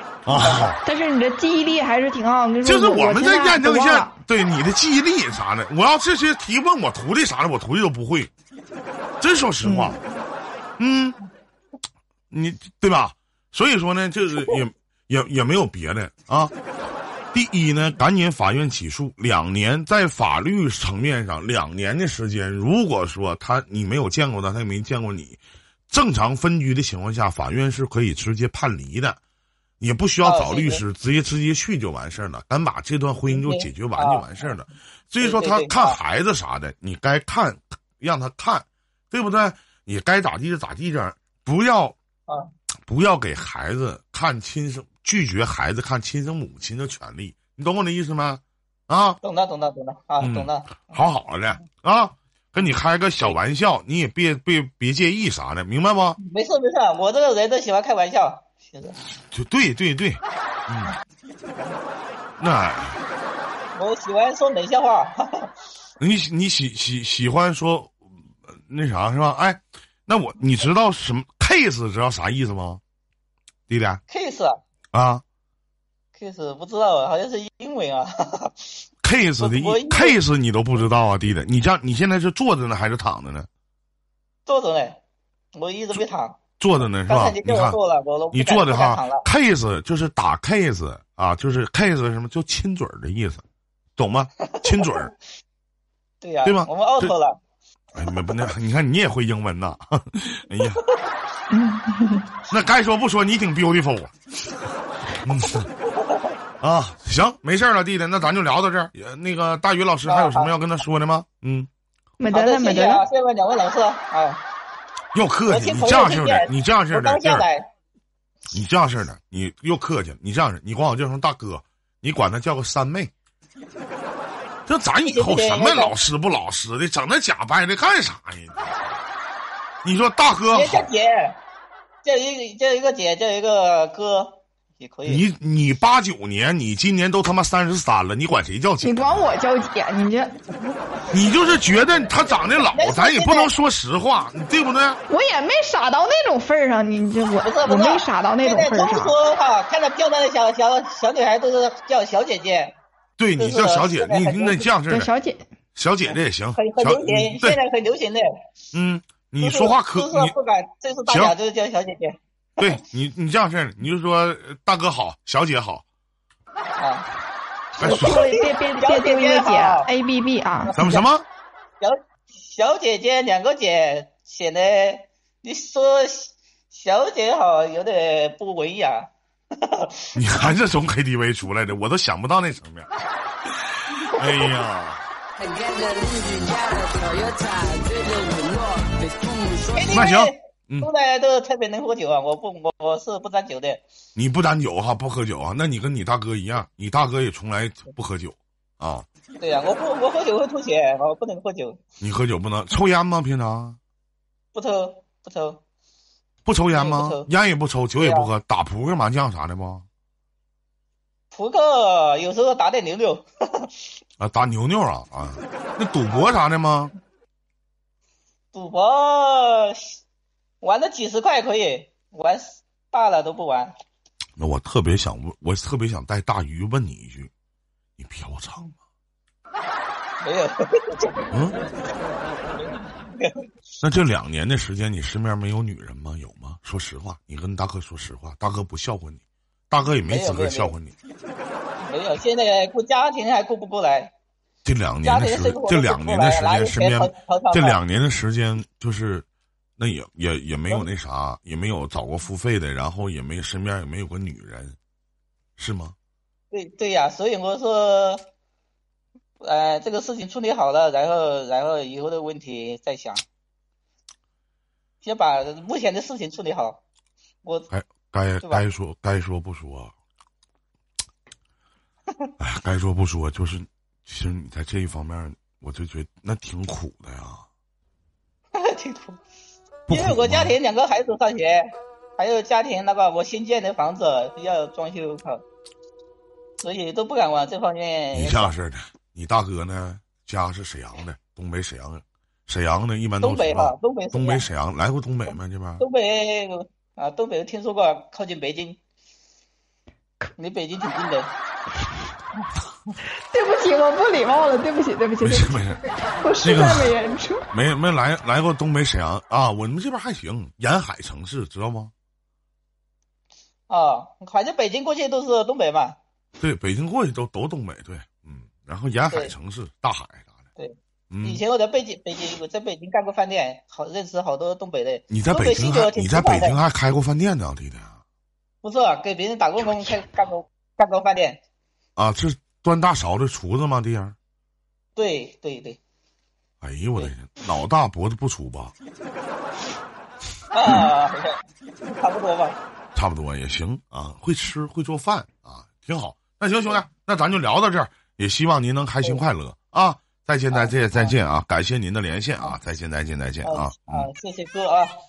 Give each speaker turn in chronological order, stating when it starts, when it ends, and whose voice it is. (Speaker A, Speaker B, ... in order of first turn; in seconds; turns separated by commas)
Speaker A: 0.2-0.8, Speaker B: 0.3-0.7, Speaker C: 0.8-4.2, Speaker A: 2.6-8.3, Speaker A: 9.2-10.0, Speaker C: 9.6-10.0, Speaker A: 10.8-11.2, Speaker A: 12.3-16.5, Speaker A: 17.3-29.2, Speaker A: 29.8-42.0, Speaker B: 30.2-30.8, Speaker B: 33.3-34.5, Speaker B: 35.2-36.0, Speaker A: 42.9-49.2, Speaker B: 49.2-51.0, Speaker A: 50.2-56.2, Speaker B: 56.2-59.0, Speaker A: 59.3-60.9, Speaker A: 62.4-63.0, Speaker B: 63.7-65.5, Speaker A: 66.0-68.0, Speaker A: 68.5-72.8, Speaker A: 73.7-74.0, Speaker B: 74.1-74.6, Speaker A: 74.9-75.2, Speaker B: 76.1-78.7, Speaker A: 79.0-83.5, Speaker B: 79.4-80.2, Speaker B: 84.5-85.0, Speaker B: 85.5-86.4, Speaker A: 86.6-87.8, Speaker B: 87.0-89.2, Speaker A: 88.3-93.4, Speaker A: 94.0-95.1, Speaker B: 94.5-95.1, Speaker B: 96.2-97.4, Speaker A: 96.4-97.1, Speaker A: 97.9-100.8, Speaker C: 101.5-102.3, Speaker A: 102.5-104.1, Speaker A: 105.2-105.7, Speaker B: 105.9-106.3, Speaker A: 106.6-111.7, Speaker B: 110.0-110.5, Speaker C: 112.2-113.0, Speaker B: 112.3-114.4, Speaker A: 115.1-117.5, Speaker B: 115.5-117.7, Speaker A: 118.5-123.1, Speaker A: 124.7-129.0, Speaker B: 125.0-125.9, Speaker A: 129.8-130.9, Speaker B: 130.5-131.4, Speaker B: 132.0-135.2, Speaker A: 135.1-139.2, Speaker C: 138.8-140.3, Speaker A: 141.1-145.0, Speaker B: 142.6-143.5, Speaker C: 145.1-149.1, Speaker B: 147.4-152.8, Speaker A: 153.2-155.1, Speaker B: 153.4-154.7, Speaker C: 154.9-155.4, Speaker A: 155.7-157.6, Speaker B: 156.6-158.3, Speaker A: 158.7-160.3, Speaker B: 159.4-162.8, Speaker A: 161.1-161.3, Speaker A: 162.6-165.8, Speaker B: 166.8-167.1, Speaker C: 167.8-170.7, Speaker A: 167.8-168.2, Speaker B: 167.8-169.9, Speaker B: 170.6-171.0, Speaker A: 170.8-171.2, Speaker B: 171.8-180.1, Speaker A: 180.1-182.9, Speaker A: 184.0-185.0, Speaker B: 184.2-184.5, Speaker D: 185.4-190.1, Speaker B: 189.7-193.8, Speaker A: 189.9-190.9, Speaker A: 194.1-199.1, Speaker B: 199.4-201.8, Speaker A: 202.0-203.8, Speaker B: 204.5-205.6, Speaker A: 206.4-209.8, Speaker B: 206.7-207.3, Speaker B: 208.0-208.3, Speaker B: 211.3-213.7, Speaker A: 214.2-216.9, Speaker B: 216.1-216.3, Speaker B: 218.5-220.0, Speaker B: 220.6-223.7, Speaker A: 224.4-227.3, Speaker A: 228.0-228.7, Speaker B: 230.2-231.2, Speaker A: 231.3-231.6, Speaker B: 233.1-233.4, Speaker A: 233.8-240.9, Speaker B: 240.1-240.7, Speaker B: 241.8-244.1, Speaker A: 244.6-249.2, Speaker B: 245.0-247.8, Speaker A: 249.8-254.8, Speaker A: 255.6-255.9, Speaker B: 256.5-258.3, Speaker B: 259.4-263.2, Speaker B: 265.0-266.8, Speaker B: 267.4-267.7, Speaker A: 267.7-269.9, Speaker A: 272.4-277.4, Speaker B: 278.5-279.2, Speaker A: 279.9-280.6, Speaker B: 279.9-285.4, Speaker B: 286.6-288.6, Speaker A: 288.1-295.8, Speaker B: 293.2-294.4, Speaker B: 295.8-298.8, Speaker B: 300.4-301.3, Speaker C: 303.3-307.4, Speaker A: 305.2-305.8, Speaker A: 306.4-306.9, Speaker A: 307.5-311.9, Speaker B: 313.7-315.9, Speaker A: 316.4-320.3, Speaker B: 320.6-326.6, Speaker A: 321.1-321.4, Speaker A: 325.1-328.0, Speaker B: 328.6-331.4, Speaker A: 332.0-334.1, Speaker B: 334.9-335.8, Speaker A: 336.6-338.7, Speaker B: 340.5-342.6, Speaker A: 342.9-354.1, Speaker B: 350.5-351.1, Speaker B: 353.4-355.0